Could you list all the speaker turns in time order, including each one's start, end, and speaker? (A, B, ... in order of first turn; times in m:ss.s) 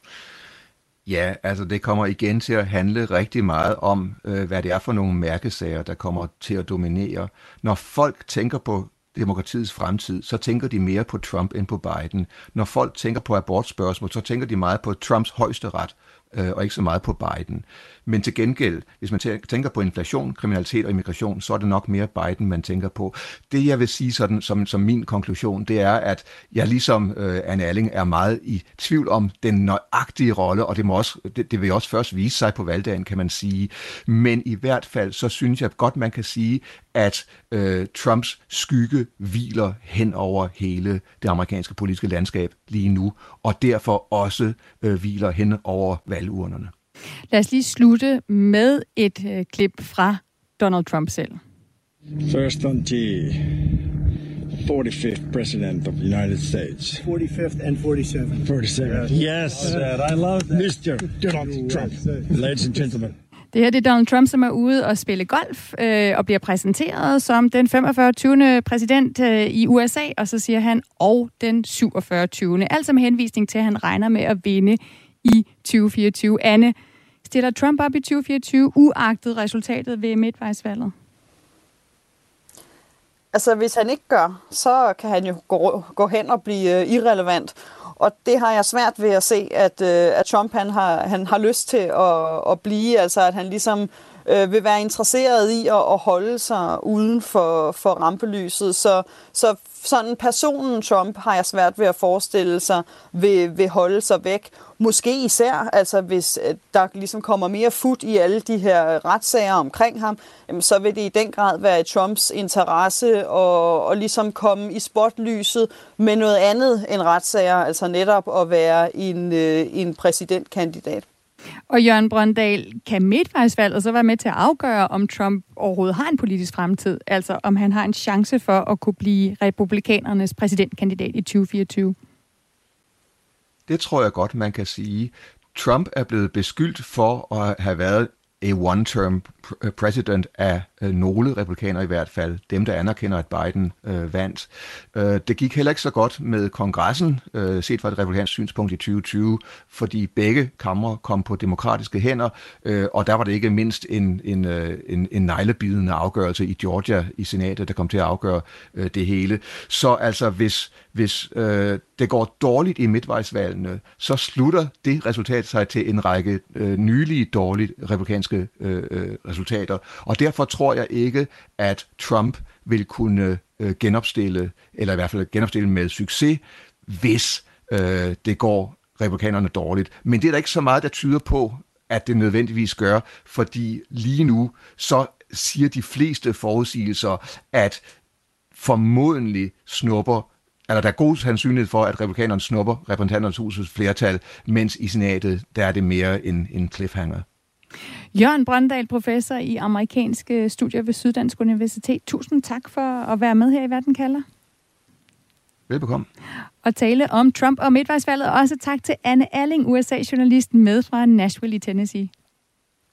0:01.1-0:46.7 A
0:47.3-0:51.4 B
0:52.2-0:53.9 C
0:54.6-0:57.1 C
0:57.0-1:00.7 D
0:58.4-1:03.1 C
1:01.3-1:02.7 D
1:03.5-1:20.9 B
1:23.3-2:01.0 E
2:01.7-2:12.0 B
2:13.7-3:07.8 A
3:08.6-3:17.3 A
3:18.1-3:24.2 B
3:25.7-3:26.1 A
3:26.6-3:32.1 B